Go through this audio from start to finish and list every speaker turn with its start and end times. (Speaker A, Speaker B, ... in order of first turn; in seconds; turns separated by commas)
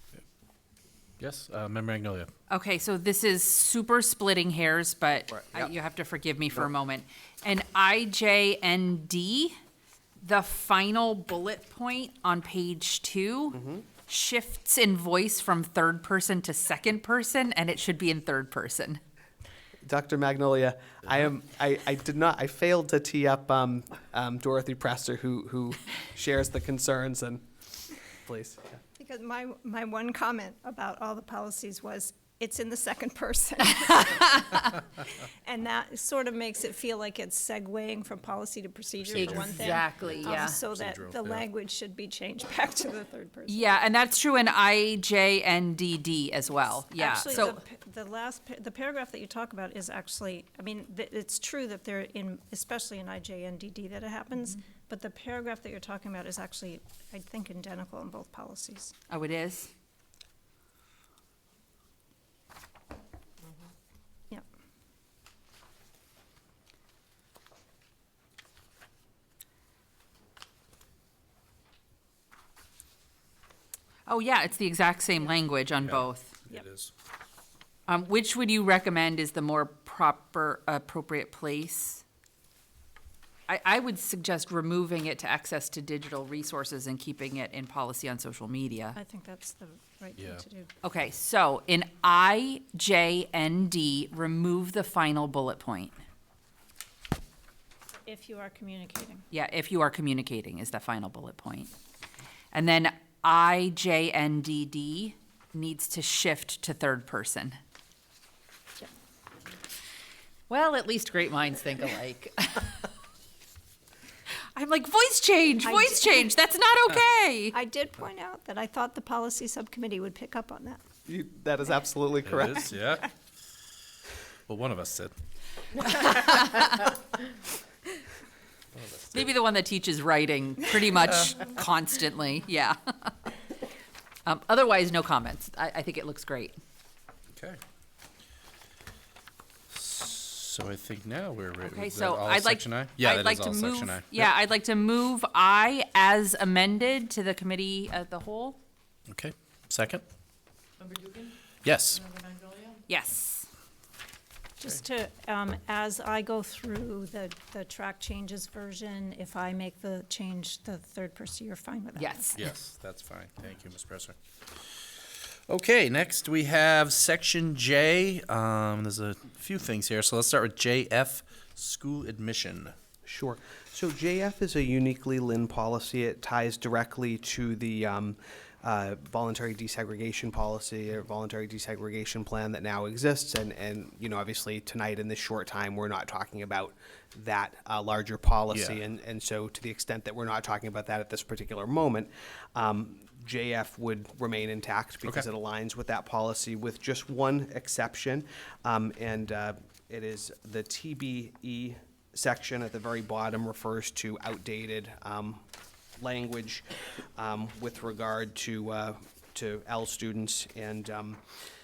Speaker A: 1.2-2.3, Speaker B: 2.5-9.6, Speaker C: 5.3-5.7, Speaker B: 10.2-19.0, Speaker C: 13.5-13.8, Speaker C: 19.8-27.5, Speaker C: 28.2-28.8, Speaker D: 29.0-43.8, Speaker B: 33.9-34.6, Speaker A: 39.0-41.5, Speaker B: 39.4-40.6, Speaker B: 43.5-47.6, Speaker D: 47.0-59.0, Speaker B: 59.1-59.7, Speaker B: 74.1-76.4, Speaker A: 75.8-76.9, Speaker B: 77.9-82.0, Speaker B: 83.5-89.0, Speaker D: 89.0-90.7, Speaker A: 90.2-90.4, Speaker B: 90.8-96.0, Speaker D: 98.0-99.2, Speaker B: 99.3-101.7, Speaker B: 102.5-107.6, Speaker B: 110.5-112.9, Speaker B: 114.5-117.6, Speaker D: 115.6-116.3, Speaker D: 117.5-120.8, Speaker C: 121.1-122.7, Speaker A: 122.2-123.1, Speaker A: 124.5-125.1, Speaker B: 125.8-126.9, Speaker A: 128.7-129.3, Speaker B: 129.1-133.1, Speaker B: 134.2-136.6, Speaker A: 137.3-137.6, Speaker A: 139.7-144.3, Speaker B: 141.6-148.6, Speaker A: 149.1-150.0, Speaker A: 151.6-152.1, Speaker B: 152.9-153.5, Speaker D: 154.6-162.4, Speaker B: 162.0-162.5, Speaker A: 162.4-172.8, Speaker C: 173.1-205.4, Speaker A: 188.5-188.8, Speaker C: 206.0-206.7, Speaker C: 207.2-211.2